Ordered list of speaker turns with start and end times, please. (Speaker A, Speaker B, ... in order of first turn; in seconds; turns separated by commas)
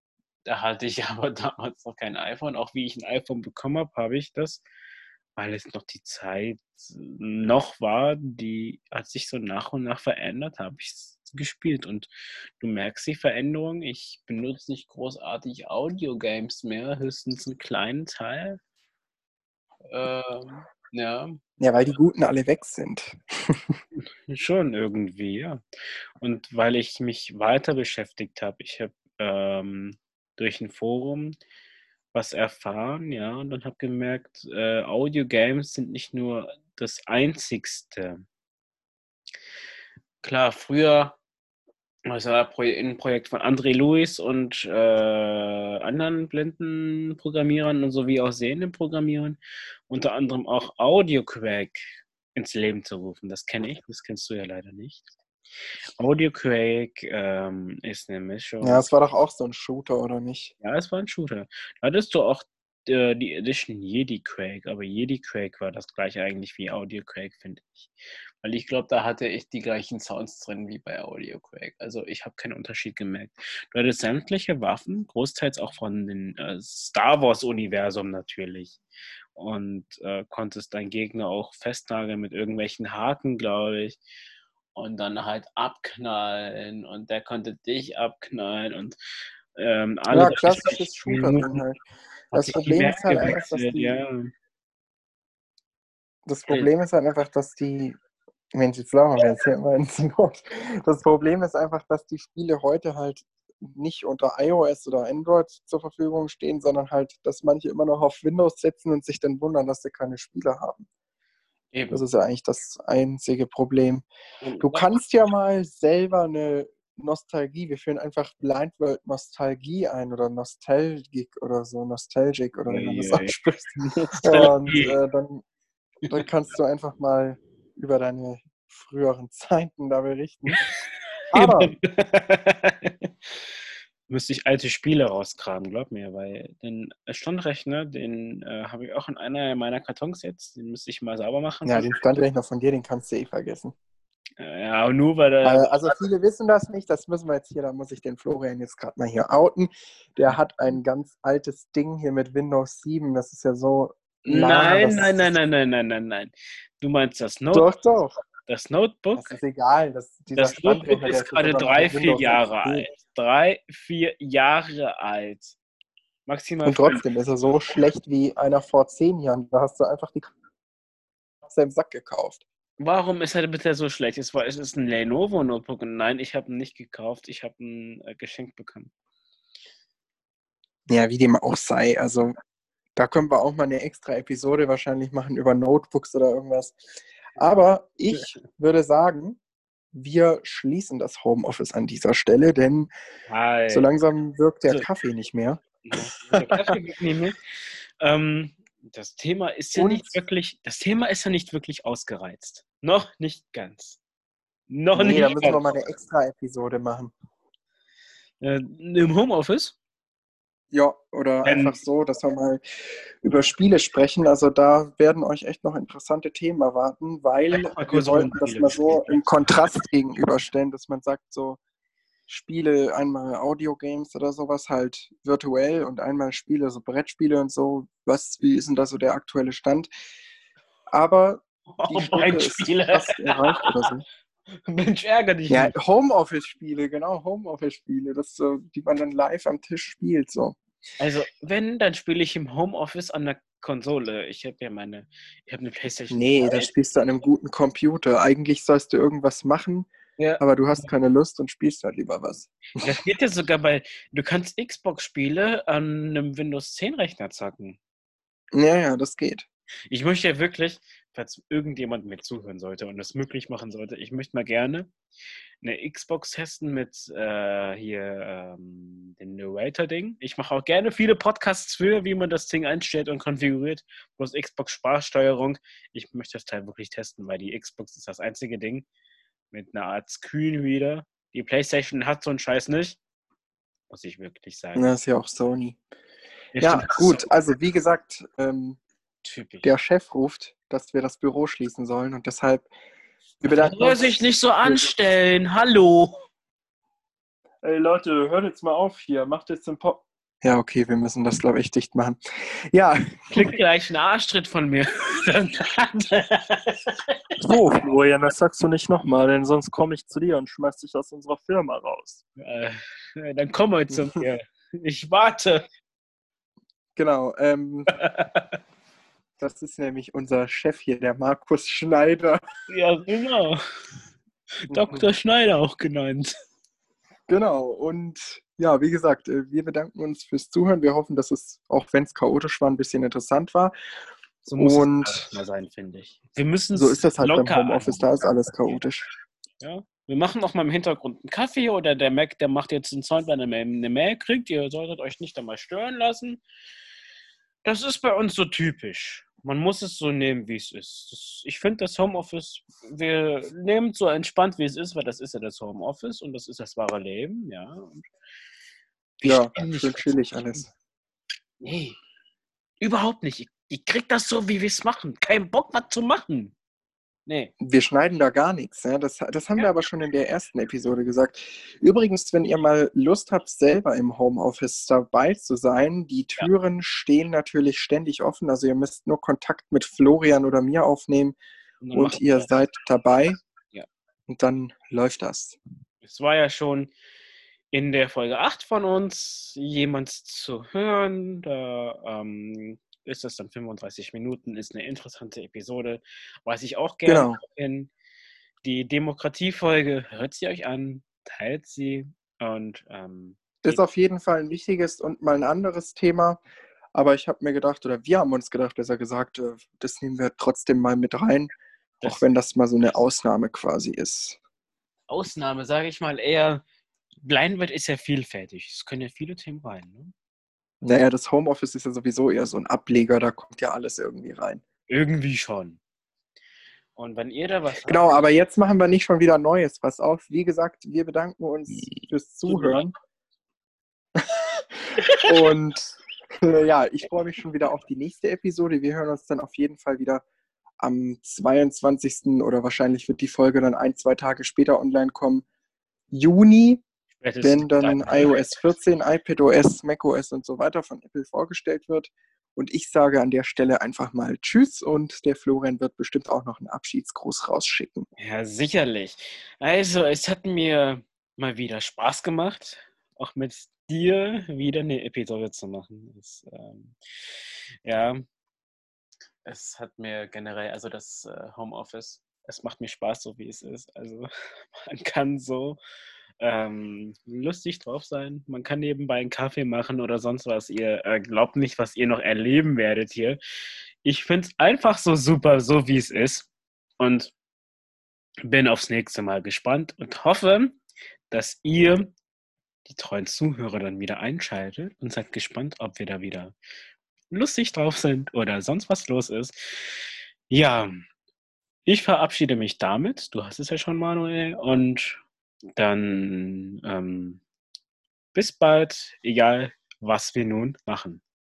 Speaker A: 0.5-4.6, Speaker A: 5.4-18.6, Speaker A: 19.9-21.4, Speaker B: 21.6-23.8, Speaker A: 24.3-25.6, Speaker A: 26.2-31.4, Speaker A: 32.1-38.2, Speaker A: 40.2-41.2, Speaker A: 42.1-49.4, Speaker A: 49.9-55.1, Speaker A: 56.0-58.9, Speaker B: 58.6-60.5, Speaker A: 60.6-78.8, Speaker A: 79.3-84.0, Speaker A: 84.8-89.0, Speaker A: 89.5-91.6, Speaker B: 90.1-91.8, Speaker B: 92.3-94.0, Speaker A: 92.3-94.3, Speaker B: 96.3-98.0, Speaker B: 98.5-110.9, Speaker A: 111.7-112.0, Speaker B: 111.9-114.0, Speaker A: 114.4-114.9, Speaker B: 114.6-123.3, Speaker A: 122.7-125.0, Speaker B: 124.2-125.4, Speaker B: 126.1-130.7, Speaker A: 130.5-133.4, Speaker B: 131.3-131.7, Speaker A: 134.1-141.9, Speaker B: 141.7-143.8, Speaker A: 144.4-145.8, Speaker B: 145.4-155.3, Speaker A: 154.3-157.7, Speaker B: 157.5-158.1, Speaker A: 158.5-159.3, Speaker B: 159.2-162.9, Speaker A: 160.3-165.6, Speaker A: 166.3-167.0, Speaker B: 166.7-170.3, Speaker B: 171.4-172.4, Speaker A: 172.8-178.9, Speaker B: 180.9-182.4, Speaker B: 183.0-186.8, Speaker B: 187.4-189.4, Speaker B: 189.9-192.9, Speaker A: 193.3-193.9, Speaker B: 193.7-195.6, Speaker A: 195.9-204.0, Speaker B: 196.2-196.7, Speaker B: 199.8-200.2, Speaker A: 204.7-205.6, Speaker B: 204.9-207.1, Speaker A: 208.4-209.8, Speaker B: 210.7-212.6, Speaker A: 211.4-211.8, Speaker B: 213.2-221.6, Speaker A: 217.5-219.6, Speaker B: 222.3-229.9, Speaker B: 230.9-234.0, Speaker A: 231.8-233.7, Speaker A: 234.6-235.7, Speaker B: 235.5-240.6, Speaker A: 241.0-246.7, Speaker B: 246.1-253.0, Speaker A: 250.2-250.8, Speaker A: 252.8-257.8, Speaker B: 258.5-259.4, Speaker A: 259.9-264.9, Speaker A: 265.6-278.9, Speaker A: 279.5-283.0, Speaker A: 283.9-285.0, Speaker B: 284.8-285.8, Speaker A: 286.5-287.3, Speaker B: 286.6-288.8, Speaker A: 289.2-289.7, Speaker B: 289.6-292.7, Speaker B: 293.4-294.9, Speaker A: 293.5-296.2, Speaker B: 297.6-303.6, Speaker A: 303.3-307.1, Speaker B: 307.4-312.2, Speaker A: 312.4-315.7, Speaker B: 317.0-317.9, Speaker A: 317.9-318.6, Speaker B: 319.4-322.4, Speaker A: 322.7-323.6, Speaker A: 324.6-326.3, Speaker B: 324.7-325.1, Speaker B: 327.3-333.7, Speaker A: 334.5-338.8, Speaker B: 334.6-335.3, Speaker B: 336.7-339.1, Speaker A: 339.6-346.4, Speaker A: 347.6-358.1, Speaker A: 359.2-360.1, Speaker B: 359.2-360.7, Speaker A: 361.6-362.0, Speaker A: 362.8-366.5, Speaker A: 367.3-367.5, Speaker B: 367.6-381.4, Speaker A: 381.8-382.5, Speaker B: 381.9-383.4, Speaker B: 384.3-385.6, Speaker A: 386.0-386.9, Speaker A: 387.7-397.9, Speaker B: 397.1-397.4, Speaker A: 398.6-403.8, Speaker B: 403.6-406.4, Speaker B: 406.9-414.4, Speaker A: 415.1-416.6, Speaker A: 417.2-420.1, Speaker B: 420.8-424.6, Speaker A: 424.9-425.8, Speaker A: 427.0-428.2, Speaker B: 427.9-432.9, Speaker A: 432.5-432.9, Speaker B: 434.2-434.6, Speaker B: 435.2-435.9, Speaker B: 436.4-440.2, Speaker B: 440.8-445.4, Speaker B: 446.1-446.8, Speaker A: 447.2-448.3, Speaker B: 447.4-458.1, Speaker A: 458.2-468.2, Speaker A: 469.4-475.8, Speaker A: 476.4-483.4, Speaker A: 484.0-487.3, Speaker A: 488.4-492.1, Speaker A: 492.9-496.6, Speaker A: 497.3-501.0, Speaker A: 501.9-505.2, Speaker A: 505.8-507.4, Speaker A: 508.3-511.2